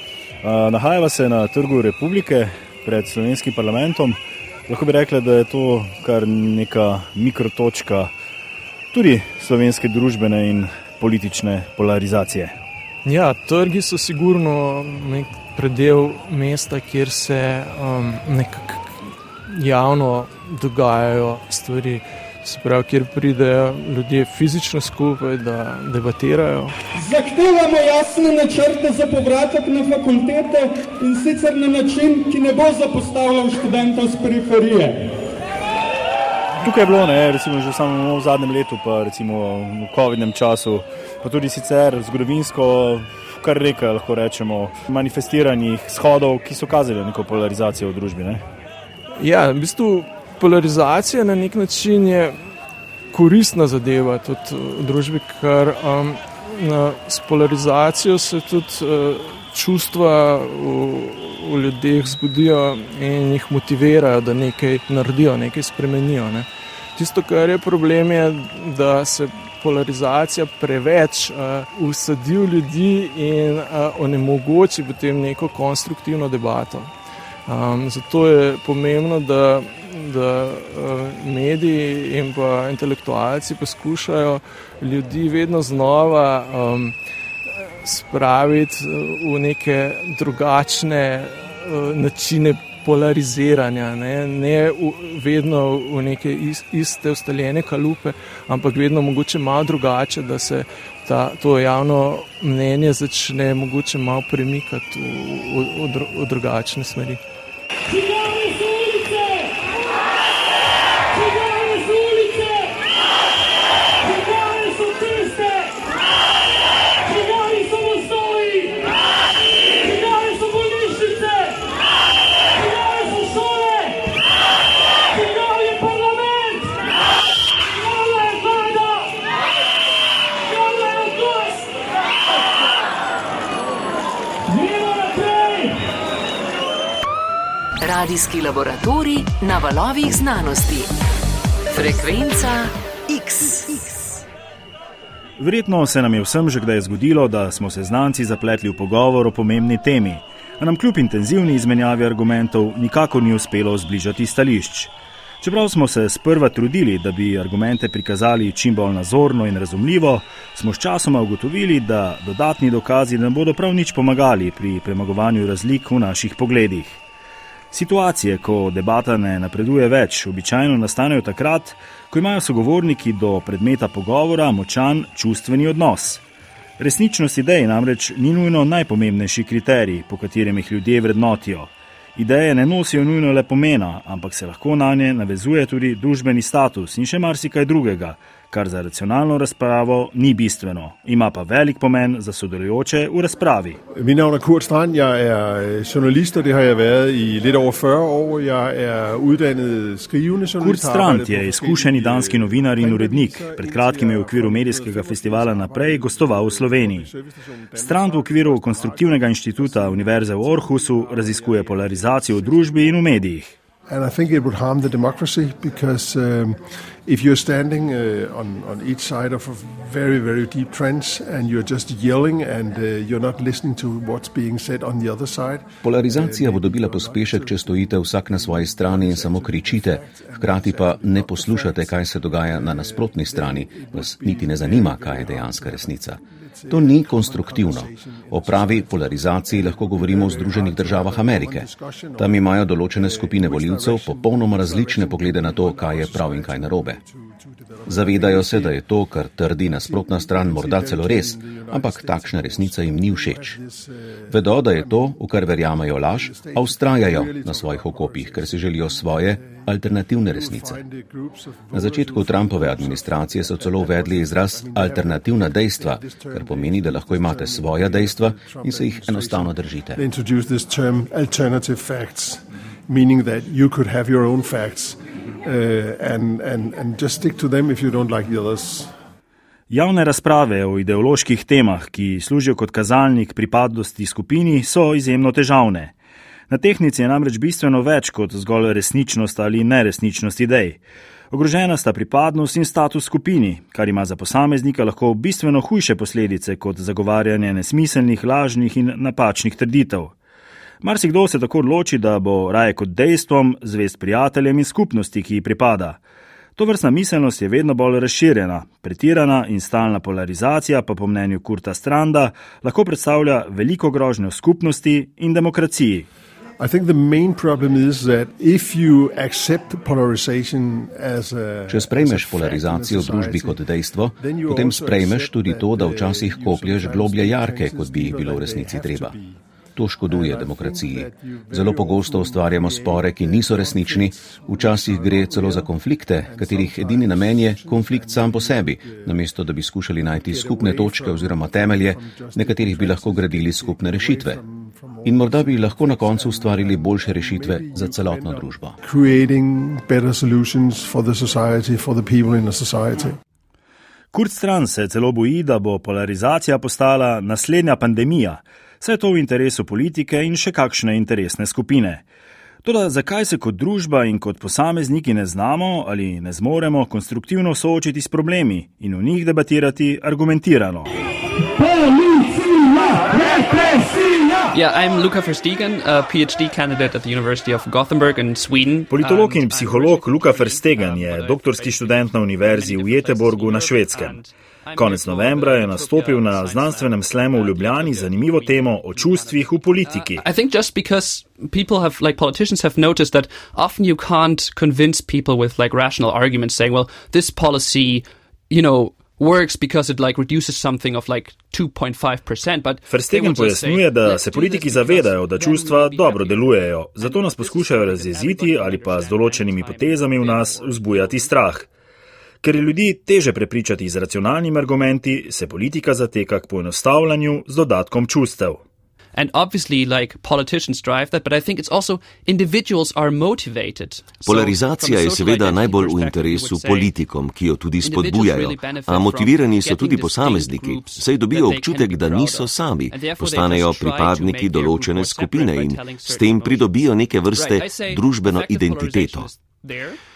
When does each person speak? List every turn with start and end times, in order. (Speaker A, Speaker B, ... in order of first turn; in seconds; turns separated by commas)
Speaker A: 0.4-8.1, Speaker A: 8.9-12.6, Speaker B: 13.0-26.8, Speaker C: 26.9-35.1, Speaker A: 36.6-48.4, Speaker B: 49.1-52.4, Speaker B: 53.1-76.9, Speaker B: 77.5-86.9, Speaker B: 87.8-107.2, Speaker C: 107.9-109.6, Speaker C: 111.1-112.8, Speaker C: 114.0-115.8, Speaker C: 117.0-118.8, Speaker C: 119.8-121.7, Speaker C: 122.5-124.1, Speaker C: 125.1-126.8, Speaker C: 127.6-129.1, Speaker C: 130.5-131.7, Speaker C: 134.5-135.8, Speaker D: 137.8-140.9, Speaker D: 141.7-144.2, Speaker A: 145.4-167.0, Speaker A: 167.7-176.2, Speaker A: 176.8-193.8, Speaker E: 193.9-213.2, Speaker A: 200.6-207.1, Speaker A: 207.8-213.5, Speaker E: 213.9-248.8, Speaker F: 225.8-247.0, Speaker F: 247.9-253.6, Speaker E: 249.8-255.2, Speaker F: 254.3-260.8, Speaker E: 256.1-259.7, Speaker E: 260.3-278.9, Speaker F: 261.7-270.0, Speaker A: 279.7-285.9, Speaker A: 286.5-290.8, Speaker A: 291.3-300.1, Speaker A: 300.8-306.0, Speaker A: 306.6-316.1, Speaker E: 316.6-323.6, Speaker F: 321.7-329.1, Speaker E: 324.2-329.4, Speaker F: 329.8-344.4, Speaker E: 330.1-339.2, Speaker E: 340.1-353.2, Speaker F: 345.0-348.8, Speaker A: 354.1-362.0, Speaker A: 362.6-370.9, Speaker C: 371.6-374.6, Speaker G: 374.5-411.3, Speaker A: 378.9-384.2, Speaker A: 384.8-390.2, Speaker A: 402.9-411.7, Speaker A: 412.4-418.6, Speaker G: 419.1-426.9, Speaker H: 424.2-439.3, Speaker G: 427.8-440.0